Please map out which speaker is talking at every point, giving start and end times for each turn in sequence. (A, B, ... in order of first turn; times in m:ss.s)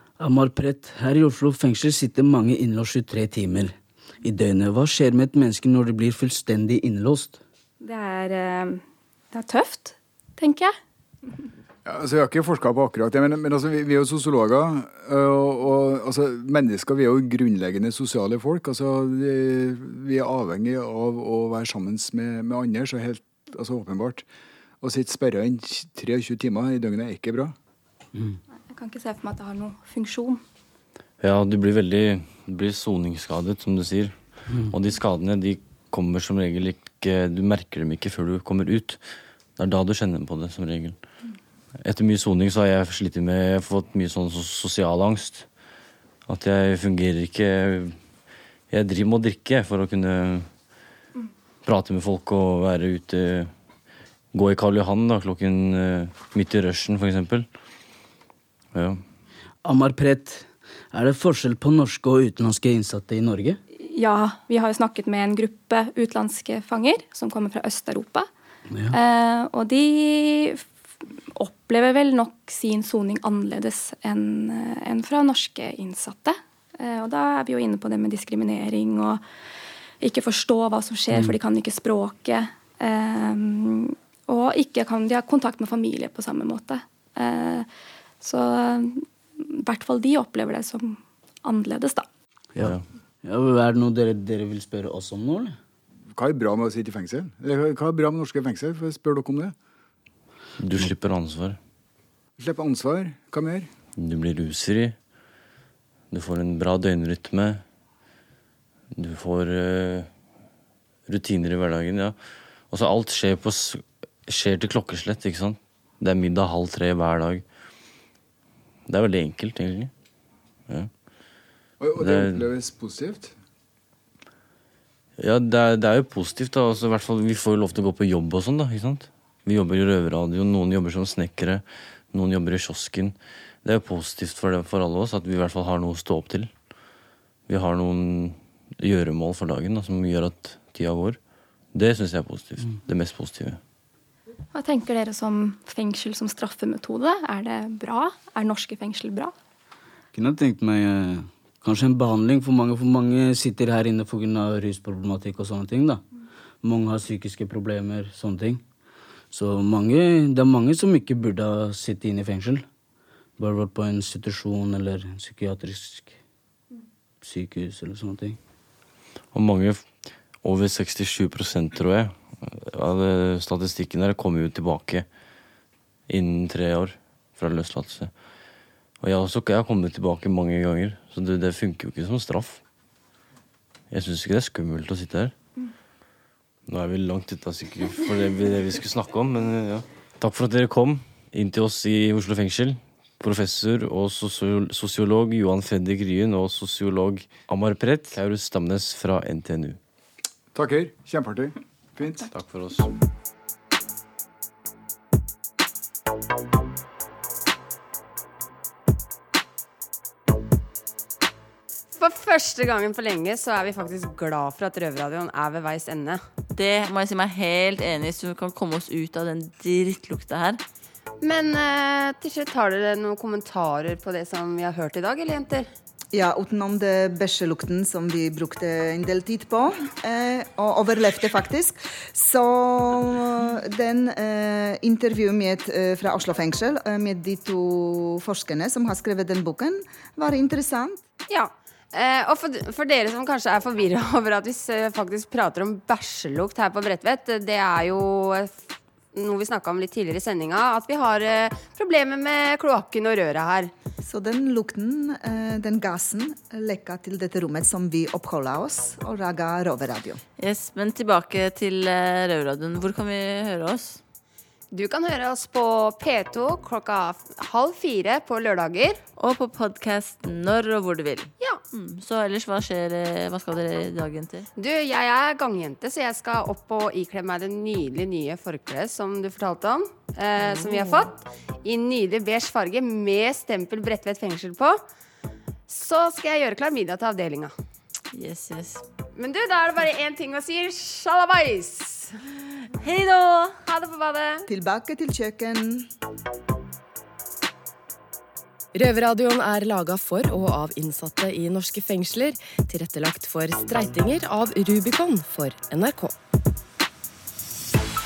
0:00.2-0:07.4 A
0:07.8-0:10.8 B
0:11.8-0:24.2 C
0:24.8-0:27.6 C
0:28.7-0:30.4 B
0:31.2-0:34.2 D
0:34.7-0:39.0 D
0:39.6-0:41.0 D
0:41.8-0:45.5 D
0:46.3-0:48.0 D
0:48.7-0:50.5 D
0:51.6-0:53.5 D
0:54.3-0:57.5 D
0:58.7-0:59.0 D
0:59.6-1:03.6 A
1:03.8-1:08.3 B
1:08.7-1:09.0 A
1:08.9-1:10.7 B
1:11.4-1:19.2 B
1:20.0-1:27.7 B
1:21.1-1:21.4 A
1:28.2-1:32.1 B
1:32.6-1:35.6 A
1:36.2-1:39.5 C
1:40.6-1:41.6 D
1:42.4-1:43.7 C
1:44.0-1:45.0 D
1:46.1-1:47.6 D
1:49.0-1:50.1 D
1:51.1-1:52.2 D
1:52.7-1:57.4 D
1:58.9-1:59.9 D
2:01.8-2:03.3 C
2:02.0-2:02.4 D
2:05.2-2:16.5 D
2:17.5-2:21.2 D
2:21.7-2:23.6 D
2:24.5-2:29.3 B
2:30.1-2:36.0 A
2:36.6-2:38.6 A
2:39.3-2:42.6 A
2:43.4-2:46.2 A
2:47.2-2:48.4 A
2:49.3-2:49.8 D
2:50.4-2:55.1 D
2:56.1-2:58.1 D
2:59.0-3:02.6 D
3:03.9-3:05.4 D
3:06.7-3:19.8 D
3:20.5-3:22.3 C
3:22.3-3:22.9 D
3:31.9-3:36.2 E
3:36.5-3:40.6 F
3:41.2-3:45.7 E
3:46.1-4:01.0 G
4:01.3-4:13.7 E
4:14.0-4:20.2 G
4:20.4-4:24.0 F
4:24.7-4:29.0 E
4:29.2-4:34.5 F
4:34.6-4:44.8 E
4:40.5-4:41.0 F
4:45.7-4:47.5 E
4:48.1-4:48.8 F
4:49.2-4:52.2 E
4:52.8-4:53.6 F
4:53.7-4:54.4 E
4:54.5-4:55.9 G
4:58.7-5:06.1 H